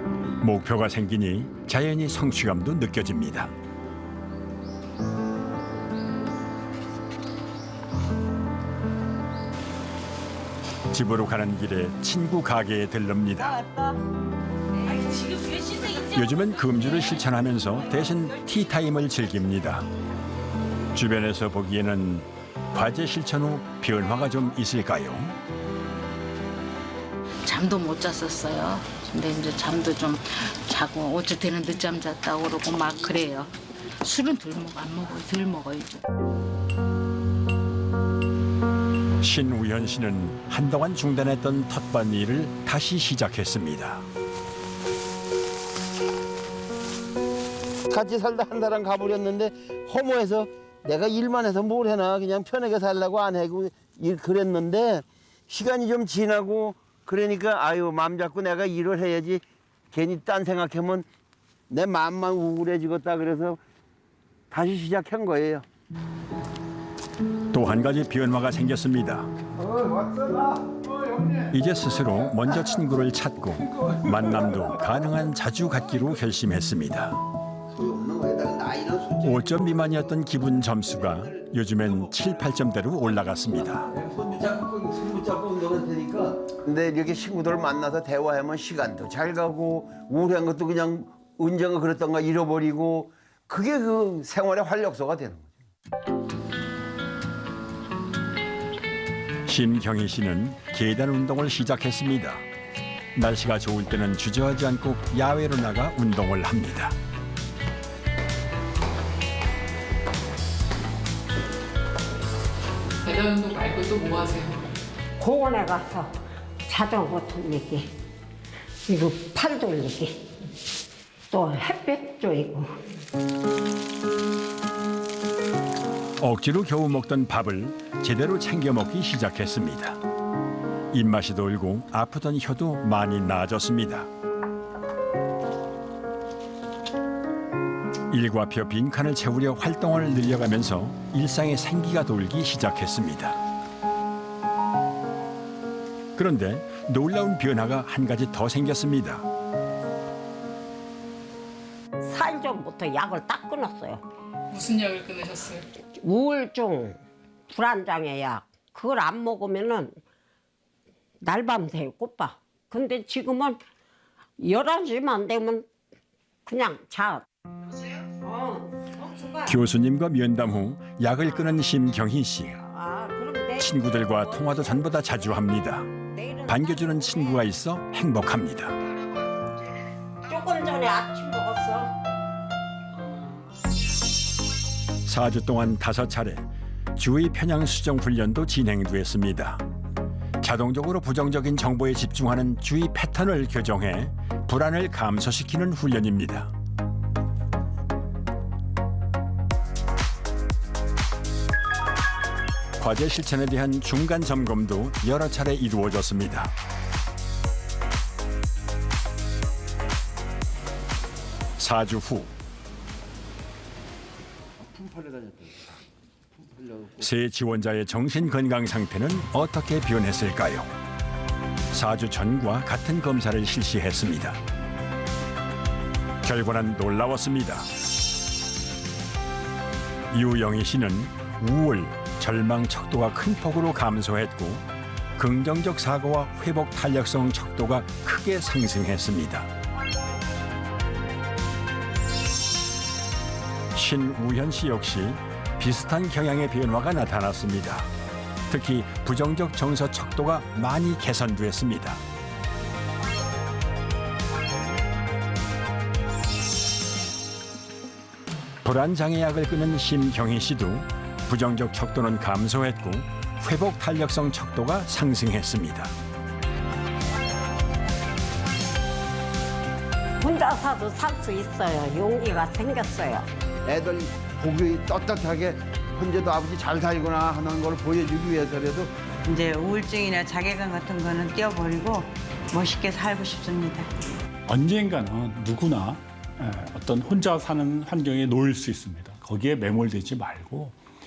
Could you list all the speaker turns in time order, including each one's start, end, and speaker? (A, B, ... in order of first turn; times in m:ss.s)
0:00.4-0:03.5 A
0:10.9-0:13.6 A
0:16.0-0:19.9 A
0:20.9-0:25.4 A
0:27.4-0:36.0 B
0:39.2-0:44.1 A
0:47.9-1:01.0 C
1:01.7-1:03.6 C
1:04.5-1:05.6 C
1:07.5-1:09.3 A
1:09.7-1:11.5 C
1:11.5-1:17.2 A
1:17.7-1:20.1 C
1:19.2-1:23.9 A
1:21.2-1:22.4 C
1:23.7-1:35.5 C
1:39.5-1:42.4 A
1:43.2-1:47.0 A
1:53.0-1:54.6 D
1:55.2-1:56.1 E
1:56.7-1:57.9 E
1:58.9-2:00.2 E
2:01.3-2:02.7 E
2:06.2-2:10.0 A
2:10.9-2:14.1 A
2:18.1-2:23.4 A
2:26.2-2:29.3 A
2:32.0-2:34.0 E
2:34.5-2:35.6 D
2:36.0-2:37.0 E
2:37.5-2:40.0 E
2:41.2-2:43.6 E
2:44.4-2:45.7 E
2:46.5-2:47.2 E
2:48.2-2:49.6 E
2:49.4-2:52.6 A
2:52.6-2:55.5 E
2:53.6-2:55.9 A
2:56.1-2:57.2 E
2:56.5-2:58.8 A
3:00.2-3:02.0 E
3:05.1-3:09.6 A
3:10.4-3:16.5 A
3:22.8-3:26.5 A
3:31.6-3:32.3 A
3:34.6-3:35.7 C
3:36.5-3:37.1 C
3:37.0-3:40.7 A
3:41.7-3:44.4 A
3:46.2-3:47.7 A
3:50.1-3:54.6 A
3:55.2-3:59.5 A
4:03.8-4:07.9 A
4:08.5-4:12.0 A
4:18.6-4:25.9 A
4:30.2-4:33.3 E
4:33.7-4:38.9 C
4:39.3-4:43.9 F
4:44.5-4:50.8 G